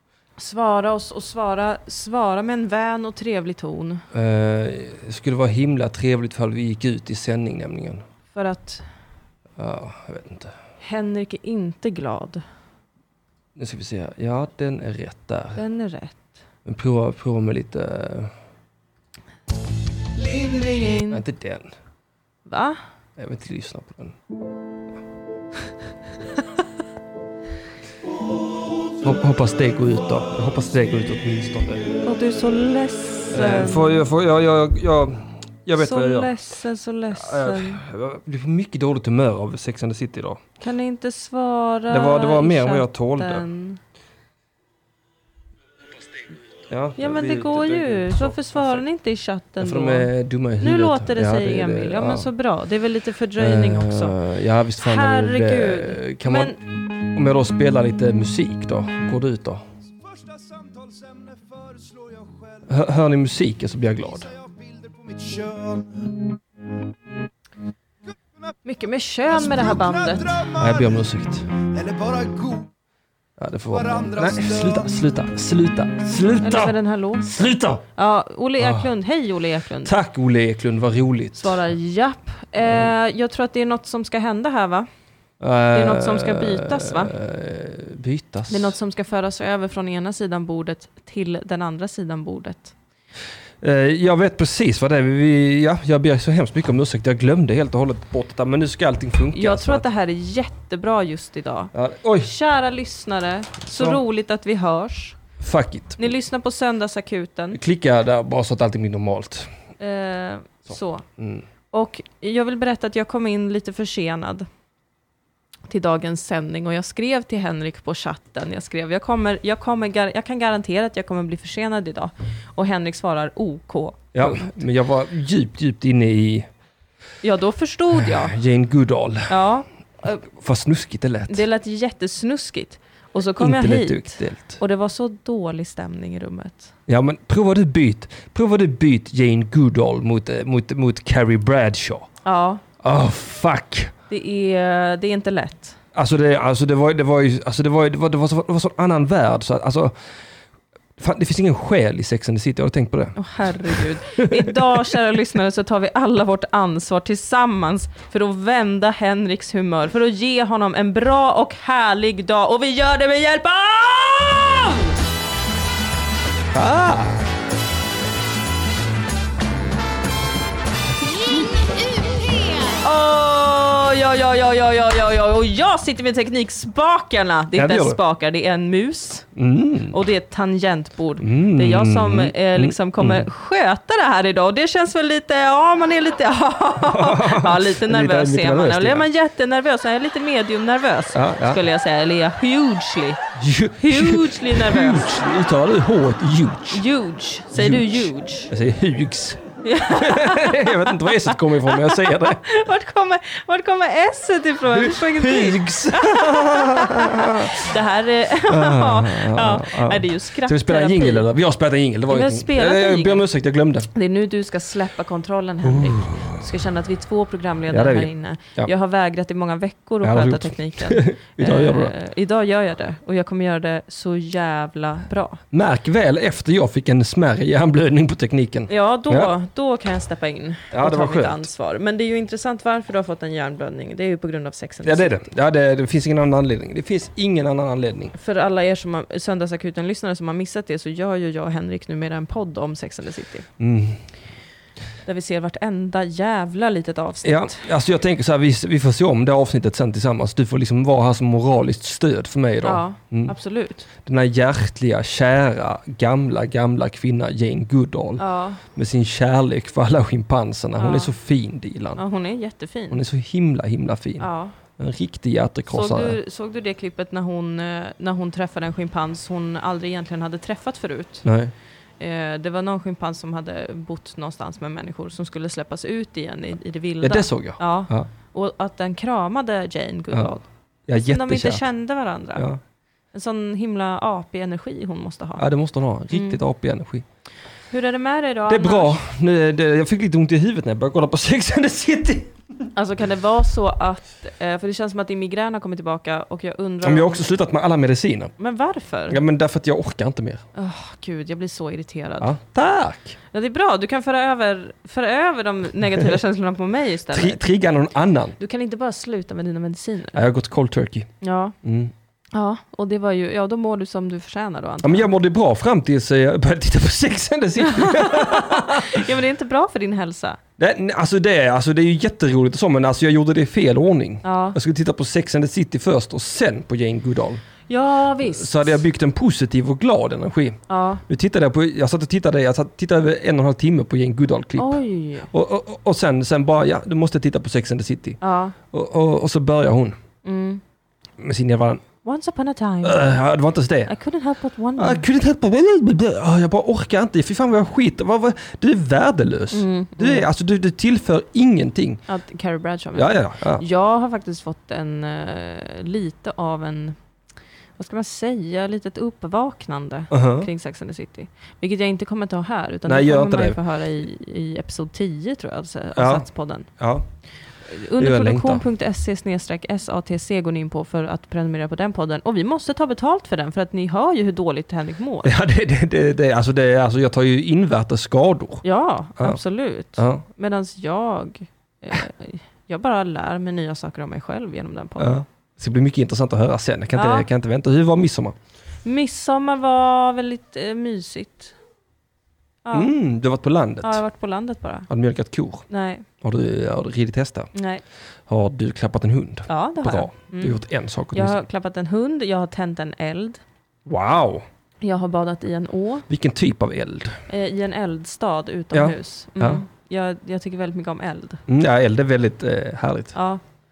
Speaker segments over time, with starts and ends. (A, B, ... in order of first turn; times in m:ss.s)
0:00.4-0:04.0 A
0:04.1-0:08.0 B
0:08.3-0:08.8 A
0:09.6-0:10.5 B
0:10.8-0:12.4 A
0:13.6-0:15.6 B
0:15.5-0:16.3 A
0:16.6-0:18.3 B
0:20.2-0:21.2 A
0:21.1-0:21.7 B
0:22.4-0:22.8 A
0:23.2-0:24.2 B
0:29.0-0:31.9 B
0:32.0-0:34.0 A
0:33.3-0:36.3 B
0:35.7-0:37.8 A
0:37.1-0:40.4 B
0:40.6-0:43.8 A
0:41.9-0:43.4 B
0:46.7-0:48.8 B
0:47.0-0:54.1 A
0:49.6-0:52.3 B
0:53.4-0:56.5 B
0:54.8-0:56.6 A
0:57.1-0:59.6 B
0:59.9-1:02.7 C
1:02.7-1:04.3 B
1:04.0-1:06.1 C
1:08.6-1:10.4 A
1:09.3-1:11.0 C
1:10.6-1:11.5 B
1:11.6-1:12.7 C
1:13.4-1:16.7 B
1:13.7-1:14.9 C
1:16.4-1:20.0 A
1:17.3-1:17.8 B
1:18.6-1:18.9 B
1:19.8-1:21.6 B
1:21.4-1:24.9 A
1:25.4-1:28.8 B
1:25.7-1:27.1 A
1:28.5-1:32.7 A
1:33.6-1:39.8 B
1:39.3-1:45.2 A
1:41.7-1:42.3 B
1:43.7-1:44.0 B
1:45.4-1:46.0 B
1:46.0-1:47.6 A
1:47.5-1:49.5 B
1:49.8-1:51.0 A
1:51.2-1:51.4 B
1:51.7-1:54.5 A
1:55.7-2:04.5 A
2:04.1-2:06.5 B
2:07.2-2:08.4 A
2:08.0-2:09.4 B
2:09.3-2:10.2 A
2:10.2-2:11.4 B
2:11.3-2:16.7 A
2:13.4-2:14.6 B
2:16.9-2:22.1 B
2:22.2-2:22.6 A
2:22.8-2:23.9 B
2:24.1-2:25.8 A
2:25.9-2:29.9 B
2:31.0-2:34.9 B
2:33.2-2:45.0 A
2:46.5-2:47.2 B
2:51.9-2:59.3 A
2:57.5-2:58.0 B
2:59.3-3:00.0 B
2:59.9-3:13.2 A
3:01.2-3:03.3 B
3:06.8-3:09.1 B
3:11.1-3:11.6 B
3:13.4-3:16.8 B
3:13.8-3:15.2 A
3:16.7-3:18.5 A
3:17.5-3:22.4 B
3:19.6-3:31.3 A
3:24.7-3:27.7 B
3:28.4-3:33.9 B
3:32.1-3:33.2 A
3:33.9-3:45.4 A
3:35.6-3:36.4 B
3:37.7-3:38.7 B
3:40.0-3:41.9 B
3:45.5-3:49.3 B
3:48.7-3:55.2 A
3:50.7-3:51.5 B
3:54.8-3:58.1 B
3:58.1-4:03.5 A
4:03.6-4:04.0 B
4:05.0-4:07.6 A
4:07.2-4:13.3 B
4:12.6-4:13.9 A
4:14.0-4:22.0 B
4:18.2-4:18.6 A
4:20.8-4:21.1 A
4:22.0-4:23.0 A
4:22.9-4:26.2 B
4:24.2-4:24.6 A
4:25.7-4:31.2 A
4:31.2-4:31.5 B
4:32.0-4:40.5 A
4:37.0-4:38.1 B
4:40.9-4:41.6 B
4:41.0-4:42.4 A
4:43.1-4:45.4 A
4:45.4-4:47.0 B
4:46.1-4:46.4 A
4:47.7-4:49.0 A
4:48.5-4:52.7 B
4:52.7-4:57.2 A
4:56.8-4:58.3 B
4:58.4-4:59.2 A
4:59.1-5:00.4 B
5:00.5-5:02.3 A
5:02.2-5:03.2 B
5:03.3-5:07.4 A
5:07.1-5:08.4 B
5:08.4-5:10.2 A
5:10.1-5:11.1 B
5:11.2-5:11.5 A
5:11.6-5:11.9 B
5:12.3-5:15.1 A
5:14.8-5:19.1 B
5:17.6-5:20.4 A
5:20.6-5:27.4 B
5:24.2-5:24.6 A
5:27.7-5:28.8 A
5:28.2-5:34.8 B
5:30.7-5:31.0 A
5:34.6-5:35.3 A
5:35.3-5:38.2 B
5:38.2-5:38.5 A
5:38.7-5:40.0 B
5:40.2-5:40.6 A
5:41.2-5:41.8 B
5:42.0-5:43.2 A
5:42.8-5:43.9 B
5:43.9-5:45.1 A
5:44.8-5:52.0 B
5:49.5-5:50.3 A
5:52.1-5:57.0 A
5:52.9-5:53.6 B
5:57.8-6:06.7 A
6:00.1-6:00.5 B
6:02.8-6:03.6 B
6:06.0-6:06.2 B
6:06.8-6:07.1 B
6:07.7-6:15.3 A
6:08.0-6:08.6 B
6:15.2-6:18.6 B
6:18.6-6:25.1 A
6:20.0-6:20.2 B
6:25.0-6:28.3 B
6:26.9-6:27.3 A
6:28.8-6:31.5 A
6:32.6-6:32.9 A
6:32.7-6:34.0 B
6:33.8-6:34.9 A
6:34.9-6:35.6 B
6:35.7-6:36.0 A
6:36.2-6:37.5 B
6:37.5-6:37.8 A
6:38.3-6:41.4 B
6:39.5-6:40.6 A
6:41.1-6:43.4 A
6:43.8-6:44.4 B
6:44.8-6:46.1 A
6:46.1-6:47.2 B
6:47.3-6:51.4 A
6:48.7-6:49.6 B
6:51.5-6:53.1 B
6:53.1-6:53.4 A